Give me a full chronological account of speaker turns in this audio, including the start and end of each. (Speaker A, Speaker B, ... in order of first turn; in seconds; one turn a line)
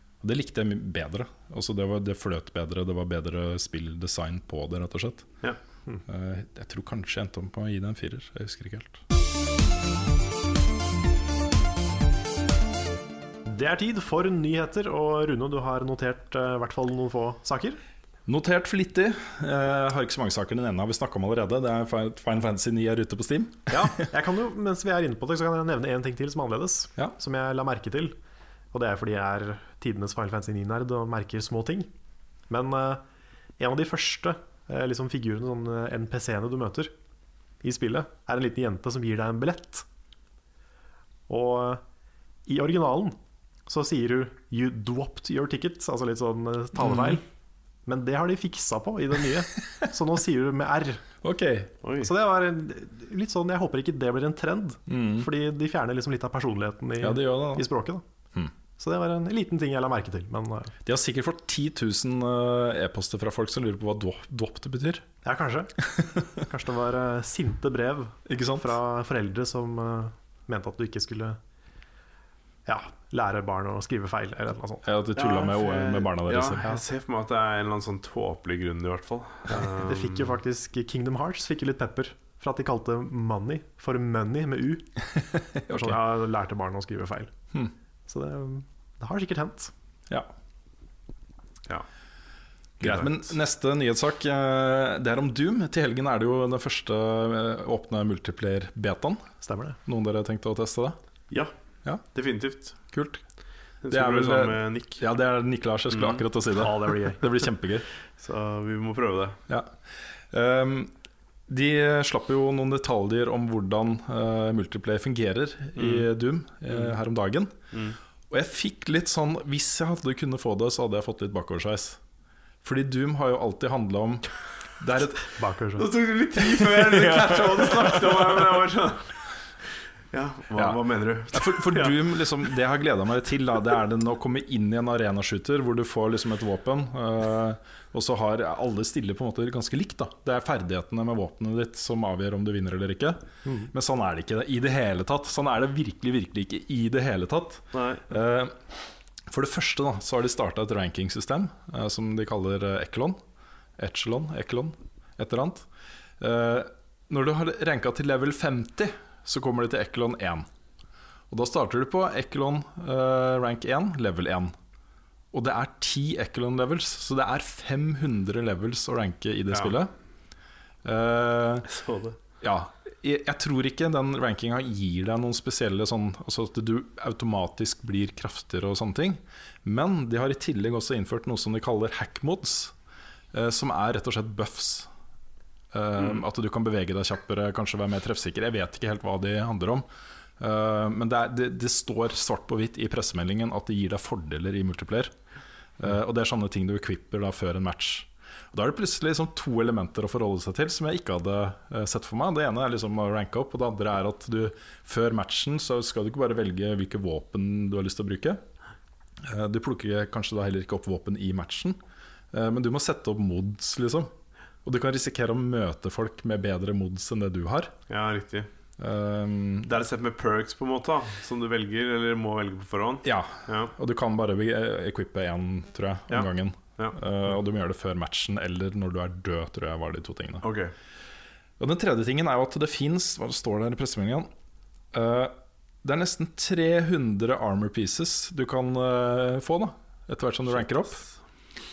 Speaker A: 0.2-5.3
Speaker A: 6.1-9.0
Speaker B: 13.4-17.8
Speaker A: 18.3-24.0
Speaker B: 23.7-28.1
Speaker B: 28.7-31.9
Speaker B: 32.5-33.0
Speaker B: 33.6-36.9
Speaker B: 37.6-39.9
Speaker B: 41.3-41.8
Speaker B: 42.5-47.2
Speaker A: 46.8-47.2
Speaker B: 47.9-51.0
Speaker A: 51.2-51.7
Speaker C: 51.8-52.1
Speaker B: 52.0-58.0
Speaker A: 54.9-55.3
Speaker A: 57.0-57.7
Speaker B: 58.8-60.7
Speaker A: 60.8-65.0
Speaker B: 65.2-65.7
Speaker A: 66.0-66.2
Speaker B: 66.3-71.4
Speaker A: 68.2-68.7
Speaker B: 72.7-74.8
Speaker A: 74.8-76.6
Speaker C: 75.2-80.3
Speaker B: 79.5-84.9
Speaker A: 85.3-86.0
Speaker B: 85.7-87.3
Speaker B: 88.1-89.7
Speaker C: 92.8-93.3
Speaker A: 92.8-99.3
Speaker B: 99.4-99.8
Speaker A: 99.8-101.0
Speaker C: 102.0-102.8
Speaker A: 102.9-103.2
Speaker C: 103.8-105.0
Speaker A: 103.9-107.9
Speaker C: 105.9-106.2
Speaker B: 106.6-107.2
Speaker C: 108.2-109.4
Speaker A: 109.5-110.9
Speaker A: 111.5-117.5
Speaker C: 115.8-116.1
Speaker C: 116.7-116.9
Speaker C: 117.7-118.0
Speaker A: 118.3-122.0
Speaker A: 122.6-125.3
Speaker B: 125.4-125.9
Speaker C: 125.8-129.2
Speaker A: 126.8-128.6
Speaker C: 130.1-132.0
Speaker A: 130.5-148.6
Speaker B: 143.4-143.7
Speaker C: 147.7-148.0
Speaker A: 149.3-153.2
Speaker A: 153.8-155.7
Speaker A: 156.2-160.5
Speaker A: 161.3-164.6
Speaker A: 165.3-169.9
Speaker A: 170.8-171.7
Speaker C: 171.7-172.1
Speaker A: 172.4-182.7
Speaker A: 183.3-184.9
Speaker A: 185.7-189.8
Speaker A: 190.4-195.1
Speaker A: 195.8-208.4
Speaker A: 209.2-211.8
Speaker A: 212.3-214.1
Speaker A: 214.6-217.7
Speaker C: 217.9-218.5
Speaker A: 218.8-219.7
Speaker C: 219.7-223.7
Speaker A: 223.0-230.4
Speaker C: 226.1-227.0
Speaker C: 230.4-230.7
Speaker A: 231.6-234.3
Speaker A: 234.9-241.0
Speaker C: 240.5-241.1